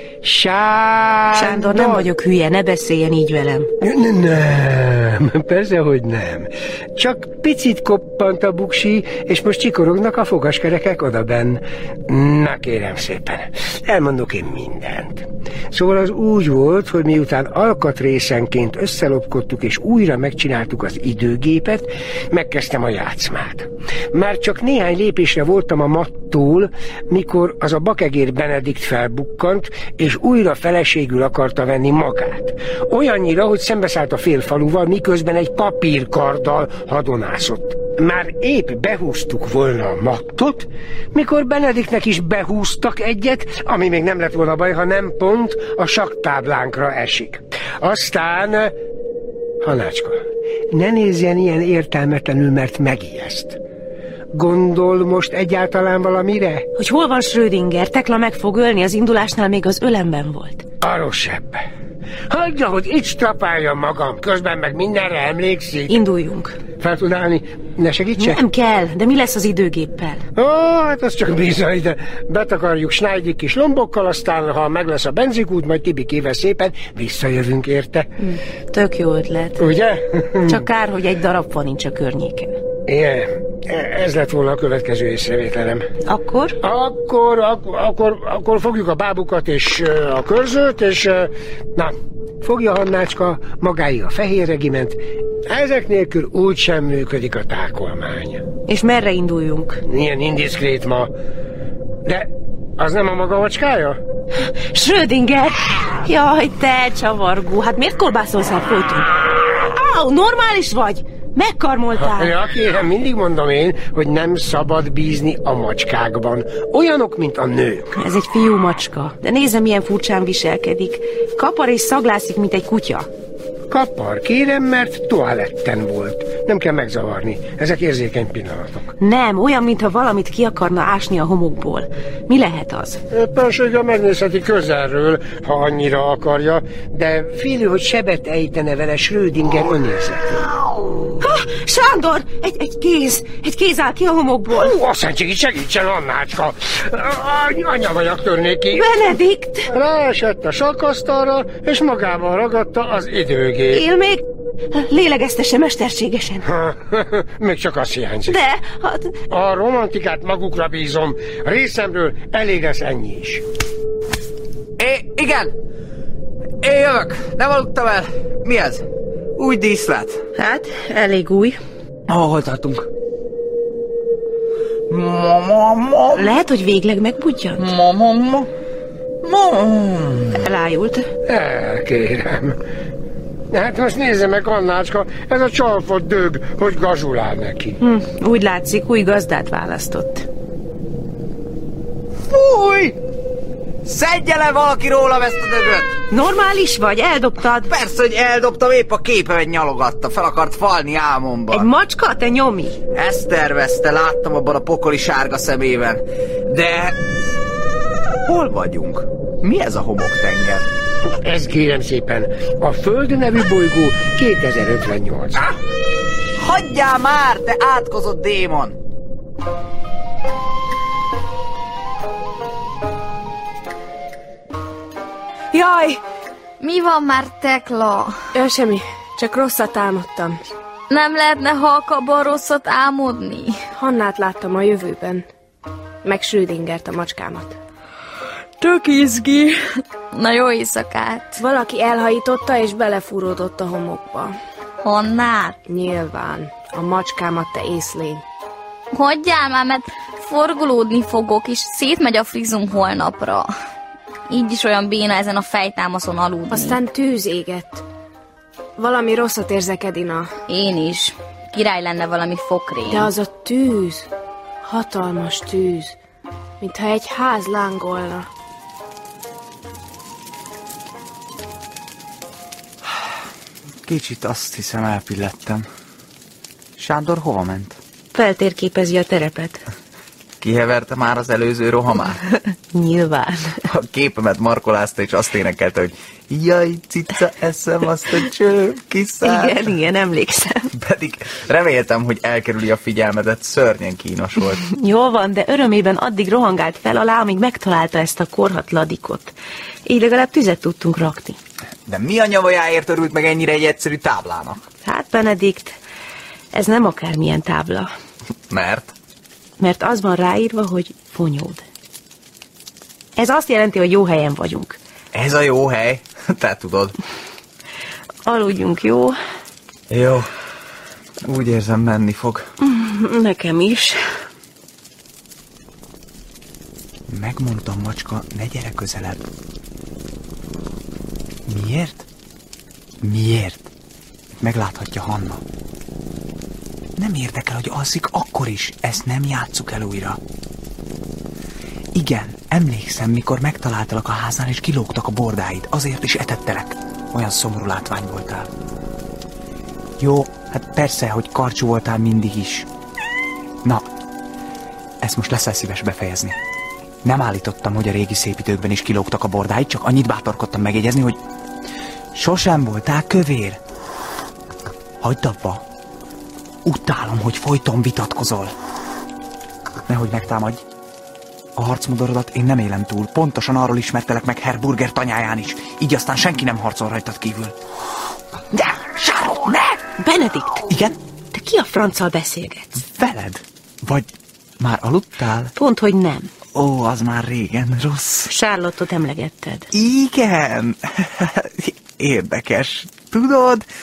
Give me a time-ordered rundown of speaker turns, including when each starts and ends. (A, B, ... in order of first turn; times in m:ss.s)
0:00.2-0:02.1 A
0:01.3-0:03.7 B
0:03.8-0:48.7 A
0:49.6-0:53.6 A
0:54.3-0:56.7 A
0:56.8-1:00.6 B
1:00.8-1:01.6 A
1:02.3-1:06.0 A
1:05.9-1:06.6 B
1:06.8-1:08.4 A
1:08.2-1:10.3 B
1:10.4-1:18.1 A
1:18.2-1:19.6 B
1:19.6-1:20.6 A
1:20.5-1:22.6 B
1:22.9-1:25.9 A
1:26.1-1:26.6 B
1:26.6-1:38.5 A
1:38.7-1:39.8 B
1:39.9-1:41.1 A
1:42.0-1:44.0 A
1:44.7-1:49.1 B
1:49.6-1:52.3 B
1:52.0-1:58.0 A
1:58.0-2:03.1 B
2:03.7-2:08.9 A
2:09.0-2:13.0 B
2:13.1-2:20.6 A
2:21.2-2:24.7 B
2:24.5-2:28.9 A
2:28.7-2:29.7 B
2:29.7-2:33.9 A
2:33.7-2:34.2 B
2:34.8-2:36.4 B
2:36.4-2:38.4 A
2:38.3-2:39.2 B
2:39.3-2:43.4 A
2:44.8-2:45.5 C
2:46.6-2:48.8 C
2:49.4-2:50.2 C
2:50.4-2:51.6 B
2:52.1-2:52.9 C
2:54.9-2:56.4 C
2:56.1-2:57.7 B
2:57.6-2:58.5 C
2:59.2-3:00.4 C
3:00.4-3:01.1 B
3:01.3-3:02.6 A
3:03.5-3:07.8 A
3:07.8-3:10.3 B
3:12.3-3:13.0 C
3:13.8-3:16.0 C
3:16.1-3:17.7 B
3:17.7-3:21.7 C
3:21.5-3:22.8 B
3:22.9-3:27.0 C
3:28.3-3:30.7 C
3:31.1-3:35.4 A
3:36.4-3:38.8 C
3:45.5-3:45.9 B
3:46.6-3:48.2 D
3:48.3-3:50.4 E
3:50.9-3:53.6 D
3:53.8-3:55.2 E
3:56.0-3:57.6 E
3:58.6-4:01.4 D
4:01.4-4:04.3 E
4:04.8-4:05.6 D
4:05.7-4:08.2 E
4:08.9-4:13.5 D
4:14.3-4:16.8 D
4:16.5-4:17.8 E
4:18.8-4:20.3 E
4:20.5-4:23.1 D
4:22.9-4:24.1 E
4:24.6-4:26.0 E
4:26.6-4:28.3 E
4:33.8-4:35.7 C
4:36.8-4:37.8 C
4:38.1-4:39.6 B
4:40.4-4:42.2 C
4:42.7-4:43.6 B
4:43.7-4:49.8 C
4:49.2-4:50.7 B
4:50.7-4:54.6 C
4:54.7-4:59.4 B
4:59.9-5:01.4 B
5:01.9-5:04.6 C
5:04.8-5:05.8 B
5:06.5-5:07.9 B
5:08.5-5:08.9 C
5:09.6-5:11.6 B
5:13.2-5:14.8 B
5:15.1-5:17.0 C
5:18.3-5:19.2 B
5:19.9-5:20.3 C
5:21.2-5:22.5 C
5:22.6-5:24.0 B
5:27.1-5:29.2 C
5:31.5-5:32.0 C
5:33.0-5:33.7 C
5:34.4-5:35.4 C
5:37.0-5:40.2 C
5:41.9-5:48.5 C
5:50.0-5:52.7 C
5:55.0-5:56.4 C
5:57.0-6:01.2 C
6:02.1-6:03.6 C
6:05.0-6:05.6 C
6:06.6-6:08.5 C
6:09.9-6:10.6 C
6:11.6-6:17.6 C
6:18.5-6:19.8 C
6:20.0-6:20.7 B
6:20.7-6:21.0 C
6:21.3-6:22.8 B
6:22.8-6:24.1 C
6:24.6-6:25.5 C
6:25.6-6:26.3 B
6:26.6-6:28.3 C
6:28.3-6:29.7 B
6:29.7-6:33.6 C